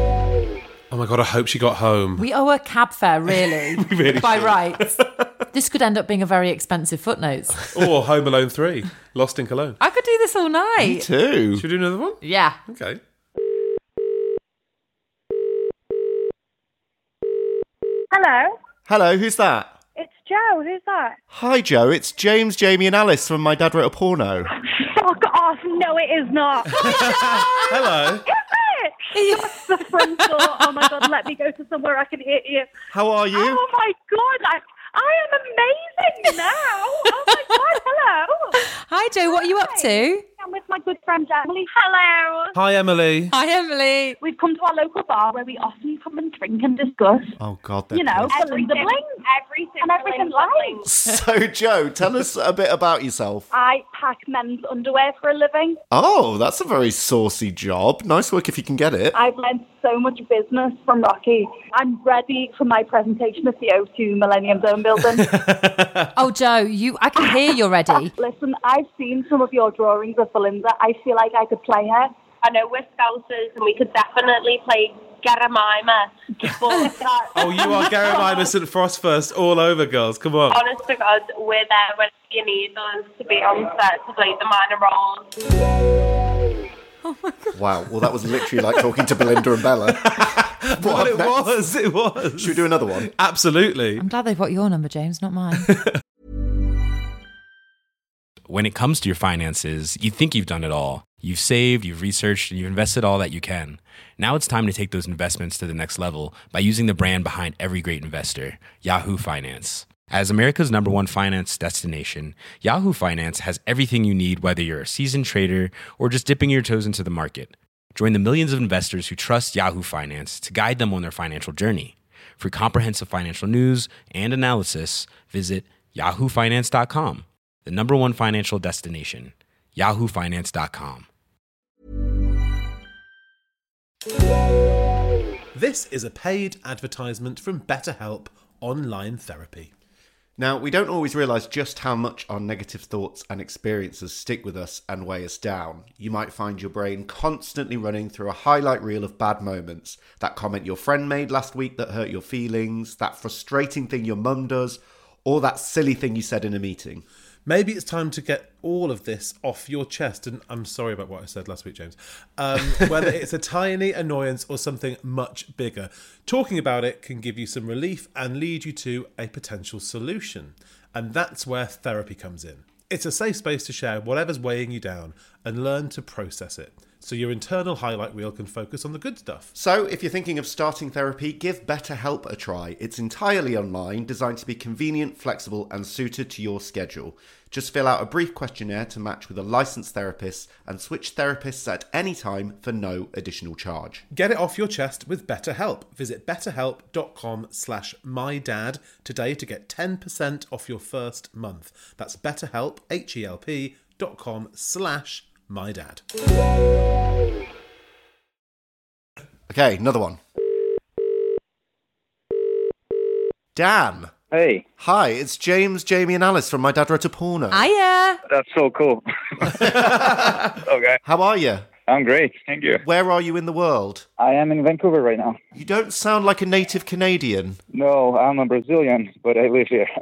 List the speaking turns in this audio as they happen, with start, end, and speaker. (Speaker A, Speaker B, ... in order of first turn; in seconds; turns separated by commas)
Speaker A: 0.9-2.2, Speaker B: 2.2-5.0, Speaker A: 3.5-5.3, Speaker B: 5.5-7.6, Speaker A: 7.7-9.8, Speaker B: 9.8-11.1, Speaker C: 10.8-11.7, Speaker A: 11.6-13.0, Speaker B: 12.2-12.6, Speaker C: 18.9-19.8, Speaker C: 21.3-24.5, Speaker D: 25.0-27.9, Speaker A: 26.8-28.2, Speaker B: 29.1-29.5, Speaker D: 29.2-32.7, Speaker C: 32.9-33.6, Speaker D: 33.4-38.2, Speaker B: 38.8-40.2, Speaker D: 39.4-41.8, Speaker E: 41.7-42.5, Speaker A: 42.5-43.3, Speaker B: 43.3-44.2, Speaker D: 44.2-47.4, Speaker C: 47.4-48.4, Speaker D: 47.9-49.2, Speaker E: 48.3-50.9, Speaker D: 49.8-50.8, Speaker C: 50.8-53.5, Speaker D: 53.5-55.8, Speaker C: 55.9-59.2, Speaker D: 59.1-65.4, Speaker A: 65.1-66.1, Speaker B: 66.2-68.1, Speaker D: 68.0-72.1, Speaker E: 72.4-78.5, Speaker A: 77.3-80.6, Speaker E: 80.5-85.2, Speaker B: 87.0-87.6, Speaker C: 87.5-91.6, Speaker A: 89.9-94.0, Speaker C: 92.3-93.1, Speaker B: 94.0-95.7, Speaker A: 95.6-95.9, Speaker F: 98.5-131.1, Speaker A: 135.5-139.7, Speaker C: 140.4-157.0, Speaker A: 157.4-179.5, Speaker C: 179.5-194.0, Speaker A: 194.1-206.0, Speaker C: 209.5-210.2, Speaker C: 213.5-214.1, Speaker G: 214.3-214.6, Speaker C: 214.8-217.7, Speaker B: 217.5-218.2, Speaker G: 218.3-221.0, Speaker C: 219.6-220.1, Speaker C: 221.0-221.7, Speaker G: 221.9-222.8, Speaker C: 222.8-224.0, Speaker G: 224.2-225.4, Speaker C: 225.5-227.6, Speaker G: 227.7-229.9